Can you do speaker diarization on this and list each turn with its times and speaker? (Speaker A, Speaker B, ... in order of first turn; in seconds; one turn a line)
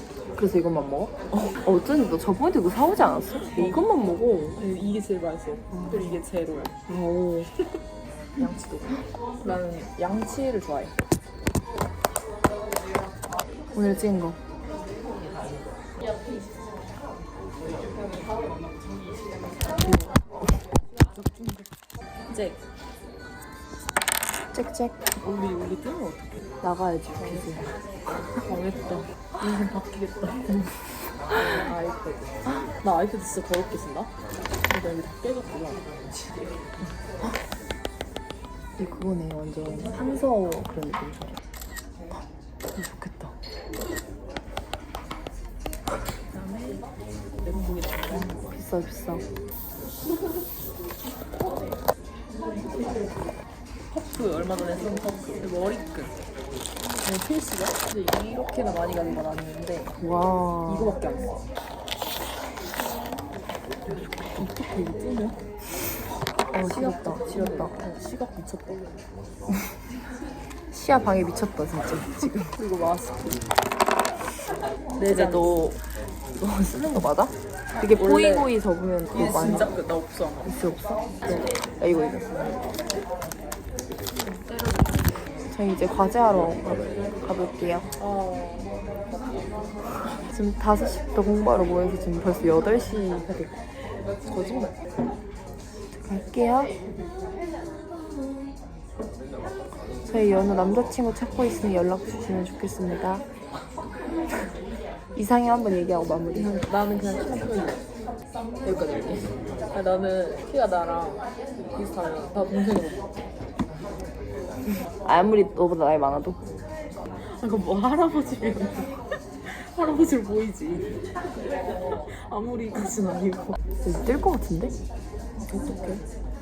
Speaker A: 0.3-1.1
Speaker B: 1.3-1.6
Speaker A: 1.6-4.6
Speaker B: 3.5-3.8
Speaker B: 4.5-6.7
Speaker A: 5.7-6.2
Speaker A: 6.9-7.5
Speaker B: 8.4-10.9
Speaker A: 13.7-14.4
Speaker A: 19.8-20.6
Speaker B: 21.1-21.7
Speaker B: 22.3-22.6
Speaker A: 24.5-25.0
Speaker B: 25.2-26.4
Speaker A: 26.6-27.7
Speaker B: 27.2-27.6
Speaker B: 28.3-30.6
Speaker B: 31.3-34.1
Speaker B: 34.7-35.9
Speaker A: 38.8-41.5
Speaker A: 42.7-43.4
Speaker B: 46.3-46.9
Speaker B: 47.4-48.4
Speaker A: 48.1-49.2
Speaker B: 53.9-56.1
Speaker B: 57.0-59.9
Speaker A: 60.0-60.9
Speaker B: 60.6-61.4
Speaker B: 64.3-65.4
Speaker A: 66.5-67.8
Speaker B: 66.6-68.8
Speaker A: 70.7-72.5
Speaker B: 72.5-73.3
Speaker B: 75.0-75.7
Speaker A: 75.1-75.8
Speaker A: 76.4-79.7
Speaker B: 77.8-78.5
Speaker B: 79.1-80.5
Speaker A: 80.4-82.5
Speaker B: 81.3-81.6
Speaker B: 84.2-85.1
Speaker A: 85.5-87.9
Speaker B: 88.0-89.7
Speaker A: 90.3-93.5
Speaker B: 94.2-94.8
Speaker A: 95.9-96.7
Speaker A: 100.0-103.2
Speaker A: 105.1-106.6
Speaker B: 106.3-107.8
Speaker B: 108.6-111.2
Speaker B: 111.7-113.1
Speaker A: 114.7-116.4
Speaker B: 117.2-120.9
Speaker B: 121.9-123.6
Speaker A: 123.8-124.7
Speaker B: 125.4-126.0